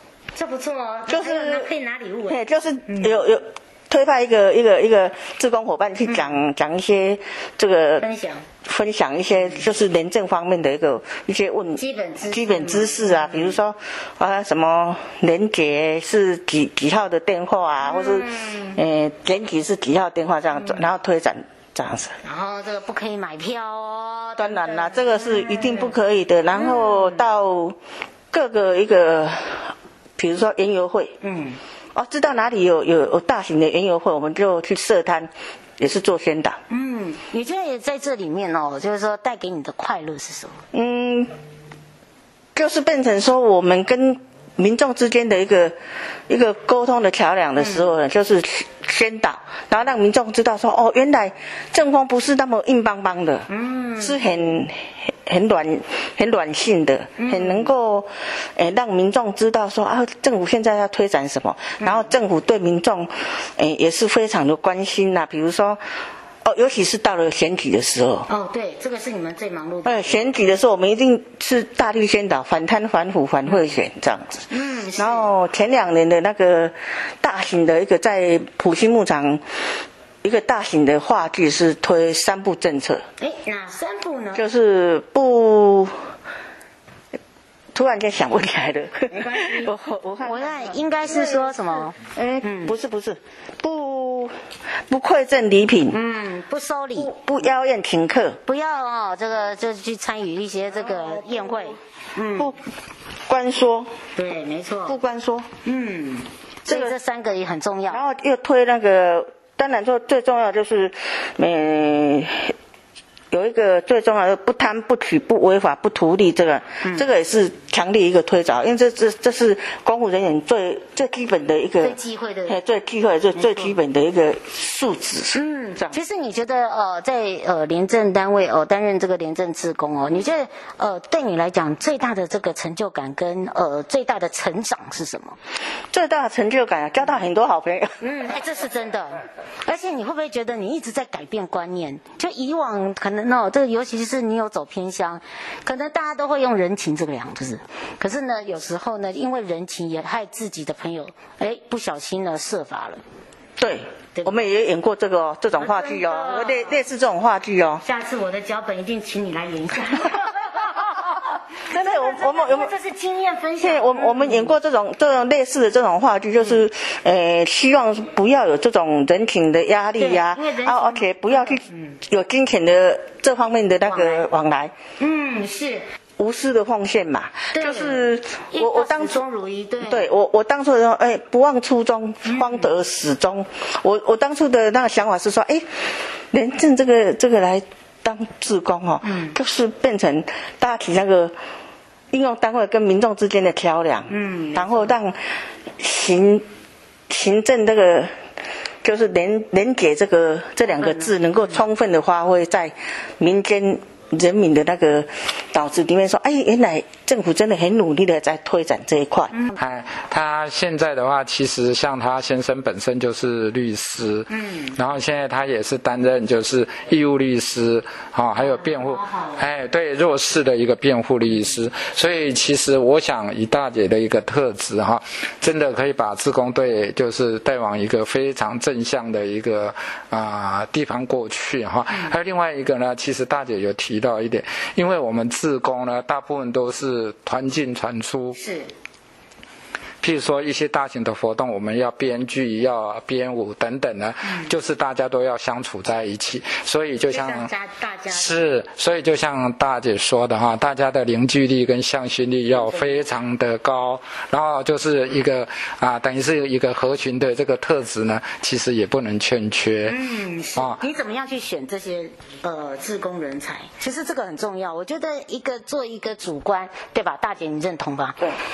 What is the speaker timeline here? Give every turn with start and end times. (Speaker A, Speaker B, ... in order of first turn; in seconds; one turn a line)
Speaker A: 0.3-3.2
Speaker B: 1.1-1.7
Speaker B: 2.3-8.1
Speaker A: 6.0-6.4
Speaker A: 8.0-8.4
Speaker B: 8.6-22.2
Speaker A: 11.8-13.6
Speaker A: 17.8-18.8
Speaker A: 20.5-20.9
Speaker A: 22.2-25.9
Speaker B: 24.4-27.8
Speaker A: 26.5-27.2
Speaker B: 28.3-31.1
Speaker A: 31.2-31.6
Speaker B: 31.9-36.6
Speaker A: 36.7-40.6
Speaker B: 40.7-41.3
Speaker B: 42.5-45.7
Speaker B: 46.3-65.8
Speaker A: 47.6-47.9
Speaker A: 53.5-54.2
Speaker A: 57.2-57.7
Speaker A: 61.8-62.1
Speaker B: 66.4-68.3
Speaker A: 68.3-70.3
Speaker B: 69.8-74.4
Speaker A: 74.5-75.3
Speaker B: 75.0-79.4
Speaker B: 80.2-83.0
Speaker A: 83.2-84.4
Speaker B: 84.3-85.9
Speaker B: 87.7-94.3
Speaker A: 89.1-92.7
Speaker B: 94.9-96.0
Speaker A: 95.9-97.1
Speaker B: 96.9-98.4
Speaker A: 98.4-102.5
Speaker B: 100.7-101.8
Speaker B: 103.3-103.9
Speaker A: 104.2-105.0
Speaker B: 104.8-105.5
Speaker A: 105.6-108.0
Speaker B: 106.7-106.9
Speaker B: 107.9-112.5
Speaker B: 113.3-126.0
Speaker A: 116.8-117.1
Speaker A: 121.8-122.6
Speaker A: 123.3-123.7
Speaker A: 125.3-135.3
Speaker B: 135.9-138.0
Speaker A: 138.0-153.0
Speaker B: 153.6-157.8
Speaker A: 154.2-154.4
Speaker A: 155.6-156.8
Speaker A: 157.8-164.5
Speaker B: 161.7-162.7
Speaker B: 163.6-174.7
Speaker A: 170.0-172.0
Speaker A: 173.9-174.2
Speaker A: 175.0-175.8
Speaker B: 176.2-179.2
Speaker A: 177.5-180.1
Speaker B: 179.8-185.6
Speaker A: 182.2-182.7
Speaker B: 186.3-191.3
Speaker A: 189.0-189.3
Speaker B: 192.1-195.2
Speaker A: 194.1-194.9
Speaker B: 195.8-196.4
Speaker B: 197.1-198.1
Speaker B: 198.8-209.3
Speaker A: 200.7-201.6
Speaker A: 209.3-209.6
Speaker C: 209.6-238.4
Speaker A: 214.3-214.8
Speaker A: 218.4-219.4
Speaker A: 238.3-238.7
Speaker C: 240.0-247.5
Speaker A: 247.1-248.5
Speaker C: 248.1-259.9
Speaker A: 252.5-253.1
Speaker A: 259.8-268.3